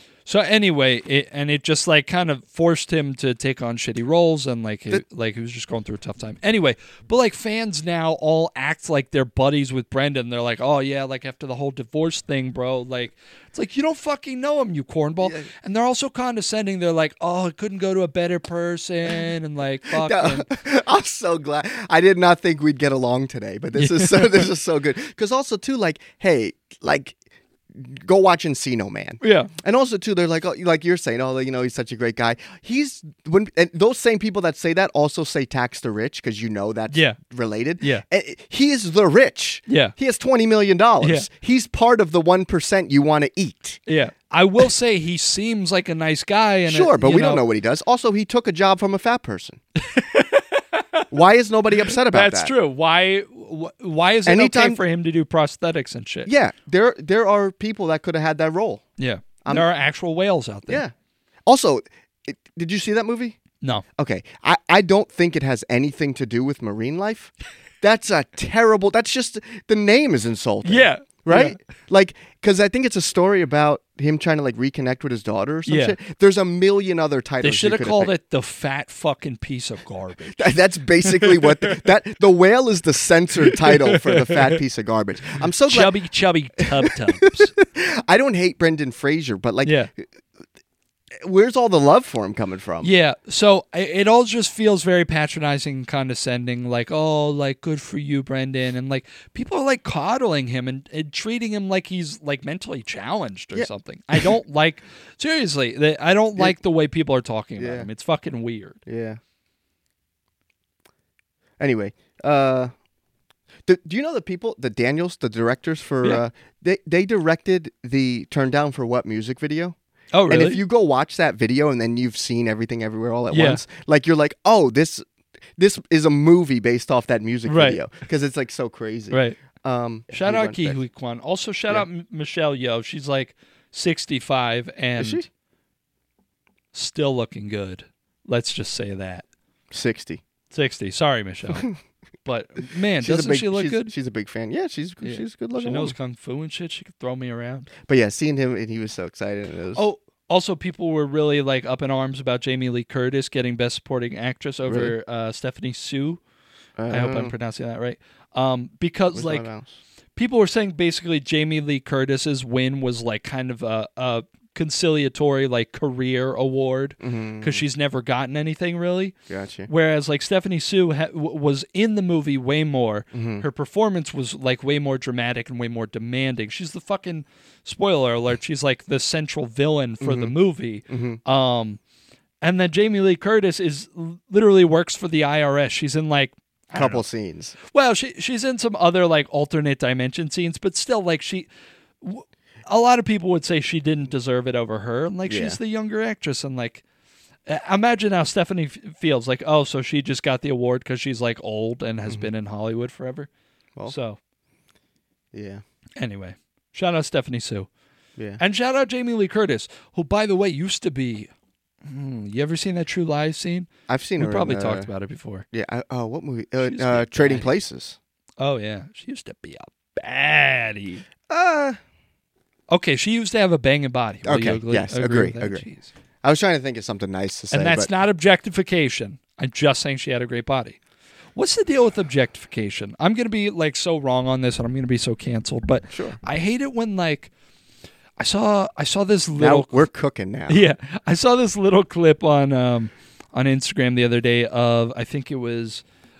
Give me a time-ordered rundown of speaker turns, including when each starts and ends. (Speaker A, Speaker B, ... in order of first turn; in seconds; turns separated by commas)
Speaker A: 0.2-20.5, Speaker B: 15.2-15.5, Speaker B: 19.9-27.2, Speaker A: 23.7-24.5, Speaker B: 27.7-43.8, Speaker A: 29.2-29.5, Speaker A: 36.9-37.2, Speaker A: 37.8-38.0, Speaker A: 39.7-39.9, Speaker A: 41.0-41.3, Speaker A: 43.9-47.4, Speaker B: 46.6-49.6, Speaker A: 49.8-51.1, Speaker B: 51.1-52.5, Speaker A: 51.9-56.3, Speaker B: 54.2-54.8, Speaker B: 56.2-58.8, Speaker A: 59.0-60.8, Speaker B: 60.7-60.9, Speaker B: 61.5-63.4, Speaker B: 64.0-78.1, Speaker A: 70.6-71.6, Speaker A: 75.7-76.0, Speaker A: 77.4-81.8, Speaker B: 80.3-86.0, Speaker A: 83.5-84.5, Speaker A: 85.7-87.5, Speaker B: 86.6-90.0, Speaker A: 89.6-89.9, Speaker B: 91.2-92.9, Speaker A: 92.8-108.8, Speaker B: 103.5-104.3, Speaker B: 107.6-107.9, Speaker B: 108.8-109.2, Speaker B: 111.6-112.7, Speaker B: 113.6-119.8, Speaker A: 120.1-120.6, Speaker B: 120.3-125.0, Speaker A: 123.3-123.6, Speaker B: 125.5-130.8, Speaker A: 127.5-127.8, Speaker A: 129.1-129.4, Speaker A: 130.1-135.2, Speaker B: 135.0-135.3, Speaker A: 136.7-139.2, Speaker B: 139.7-140.2, Speaker A: 140.5-141.7, Speaker A: 142.2-143.9, Speaker B: 143.0-145.9, Speaker A: 145.0-147.7, Speaker B: 147.8-149.8, Speaker A: 149.7-156.2, Speaker B: 154.6-154.9, Speaker B: 156.8-157.3, Speaker A: 156.9-159.5, Speaker B: 159.1-159.8, Speaker A: 160.2-169.1, Speaker B: 167.0-167.6, Speaker B: 169.3-169.7, Speaker A: 169.7-181.8, Speaker B: 173.1-173.5, Speaker B: 180.0-180.3, Speaker B: 180.9-181.2, Speaker A: 182.4-187.0, Speaker B: 186.7-187.5, Speaker A: 187.6-191.5, Speaker A: 192.0-196.8, Speaker B: 195.3-195.6, Speaker A: 197.5-203.3, Speaker A: 203.8-204.2, Speaker B: 205.3-205.6, Speaker A: 206.0-207.7, Speaker A: 208.4-211.3, Speaker A: 211.8-215.4, Speaker B: 213.9-214.9, Speaker B: 215.5-218.0, Speaker A: 216.6-217.5, Speaker A: 218.4-221.0, Speaker B: 221.3-221.8, Speaker A: 222.7-225.9, Speaker B: 224.2-225.7, Speaker B: 226.2-227.9, Speaker A: 227.5-230.8, Speaker A: 231.3-237.3, Speaker B: 235.9-236.2, Speaker A: 238.2-239.9, Speaker B: 239.4-240.7, Speaker A: 240.5-245.8